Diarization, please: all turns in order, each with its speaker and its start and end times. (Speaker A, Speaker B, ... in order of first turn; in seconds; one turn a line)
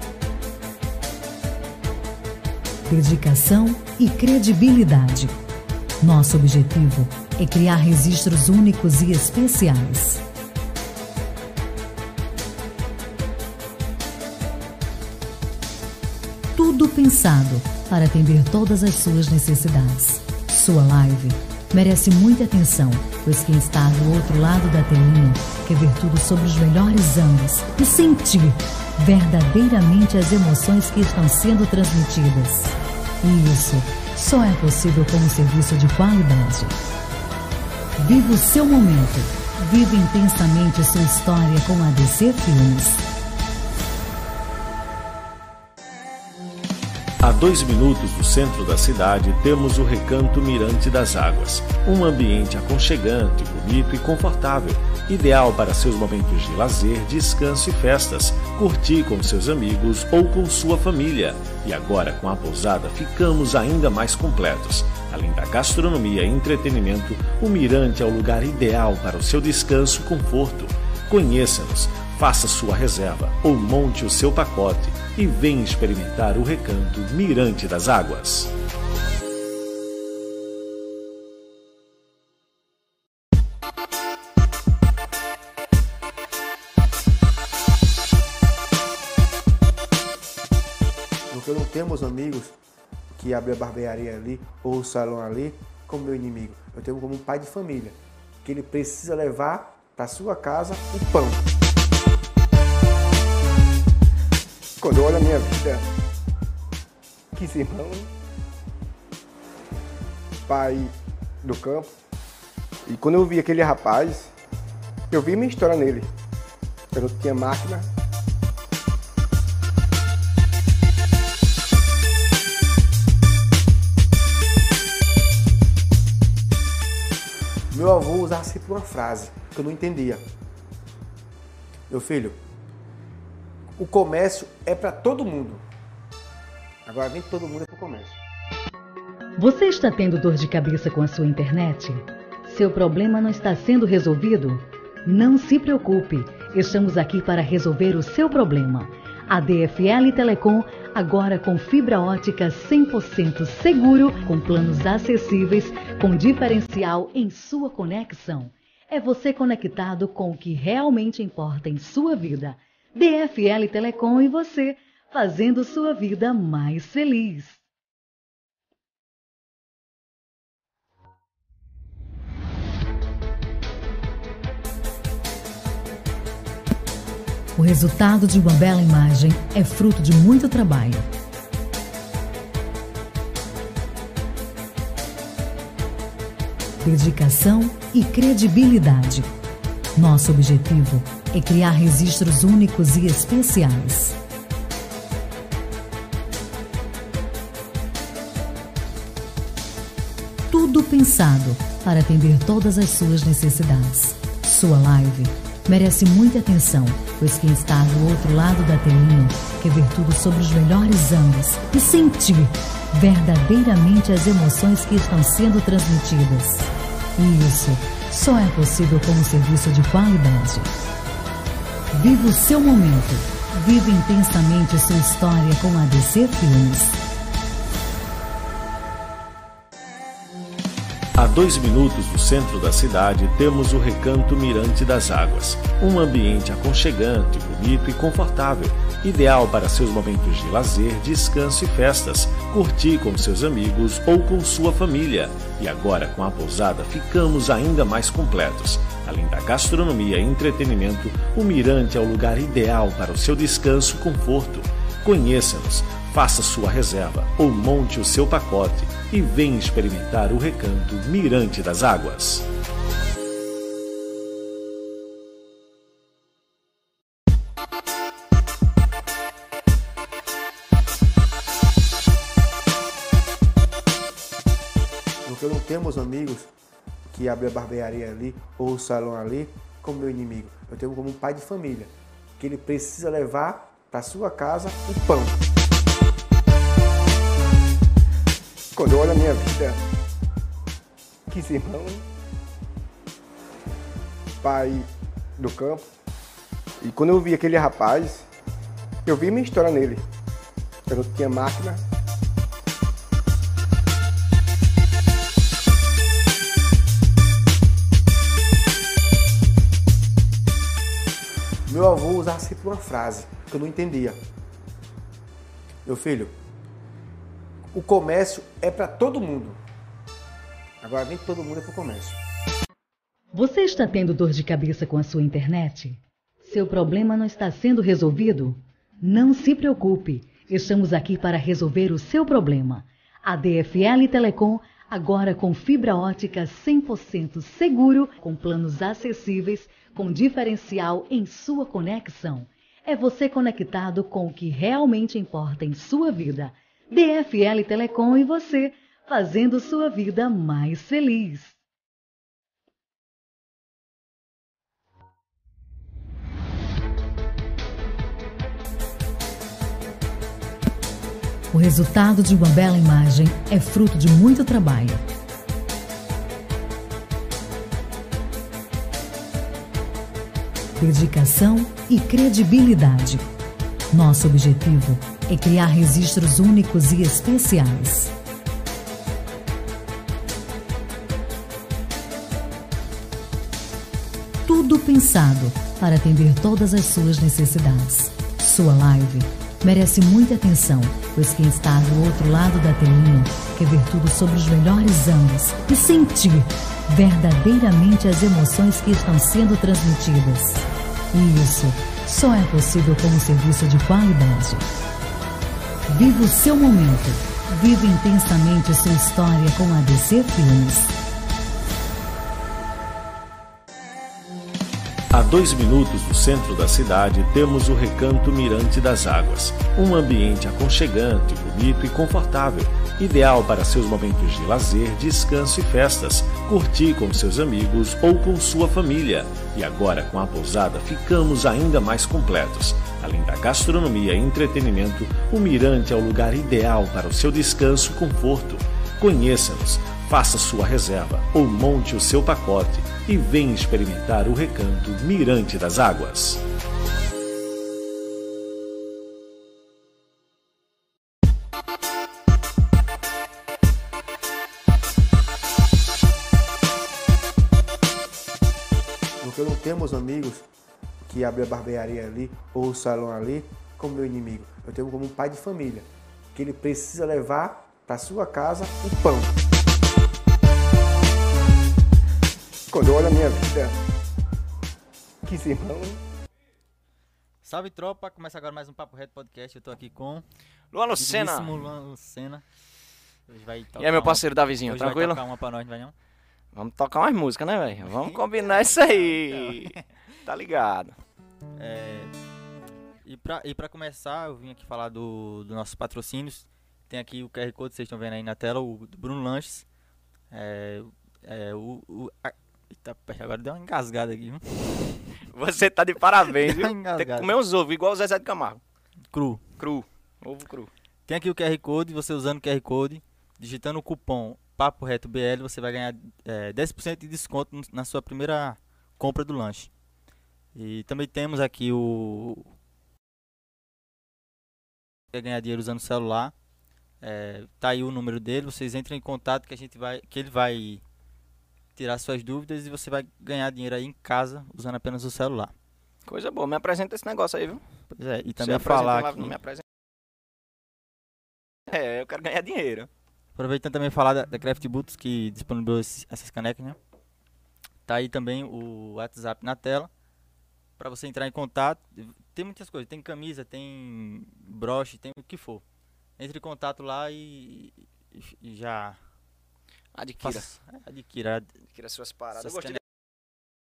Speaker A: 2.9-5.4
Speaker A: 6.0-10.2
Speaker A: 16.6-36.8
Speaker A: 38.0-43.0
Speaker B: 47.2-78.5
Speaker C: 91.3-92.5
Speaker C: 93.2-101.5
Speaker C: 104.8-105.8
Speaker C: 107.3-108.1
Speaker C: 110.5-111.9
Speaker C: 112.9-114.3
Speaker C: 115.1-116.1
Speaker C: 116.9-117.9
Speaker C: 127.7-130.2
Speaker C: 131.9-132.4
Speaker C: 133.8-135.6
Speaker C: 136.8-138.2
Speaker A: 139.4-167.6
Speaker A: 177.6-181.1
Speaker A: 186.8-189.3
Speaker A: 189.9-194.2
Speaker A: 200.5-220.7
Speaker A: 221.9-226.9
Speaker B: 231.2-262.5
Speaker C: 275.2-276.5
Speaker C: 277.1-285.4
Speaker C: 288.8-289.8
Speaker C: 291.3-292.0
Speaker C: 294.4-295.8
Speaker C: 296.8-298.2
Speaker C: 299.1-300.0
Speaker C: 300.9-301.8
Speaker C: 311.7-314.2
Speaker C: 315.8-316.3
Speaker C: 317.7-319.6
Speaker C: 320.8-322.2
Speaker A: 323.3-351.6
Speaker A: 361.5-365.0
Speaker A: 370.8-373.3
Speaker A: 373.9-378.1
Speaker A: 384.4-404.7
Speaker A: 405.9-410.9
Speaker B: 415.1-446.4
Speaker C: 459.2-460.4
Speaker C: 461.1-469.4
Speaker C: 472.7-473.8
Speaker C: 475.2-476.0
Speaker D: 477.4-480.2
Speaker E: 480.7-481.5
Speaker D: 480.9-482.4
Speaker D: 483.3-485.9
Speaker E: 483.8-485.2
Speaker E: 486.5-490.9
Speaker D: 487.8-489.8
Speaker D: 491.6-492.1
Speaker D: 493.0-499.6
Speaker D: 500.3-505.0
Speaker E: 505.3-508.6
Speaker D: 506.2-507.3
Speaker D: 509.1-509.4
Speaker E: 509.6-510.7
Speaker D: 511.1-519.7
Speaker D: 520.5-522.5
Speaker D: 525.1-526.3
Speaker D: 527.0-530.8
Speaker D: 531.7-535.5
Speaker E: 536.0-537.6
Speaker D: 537.9-539.4
Speaker E: 538.4-539.6
Speaker E: 541.7-542.9
Speaker D: 543.4-546.8
Speaker D: 547.9-549.9
Speaker D: 550.8-555.6
Speaker D: 556.2-559.0
Speaker E: 559.9-560.5
Speaker D: 560.2-561.5
Speaker E: 561.7-562.8
Speaker D: 562.4-562.8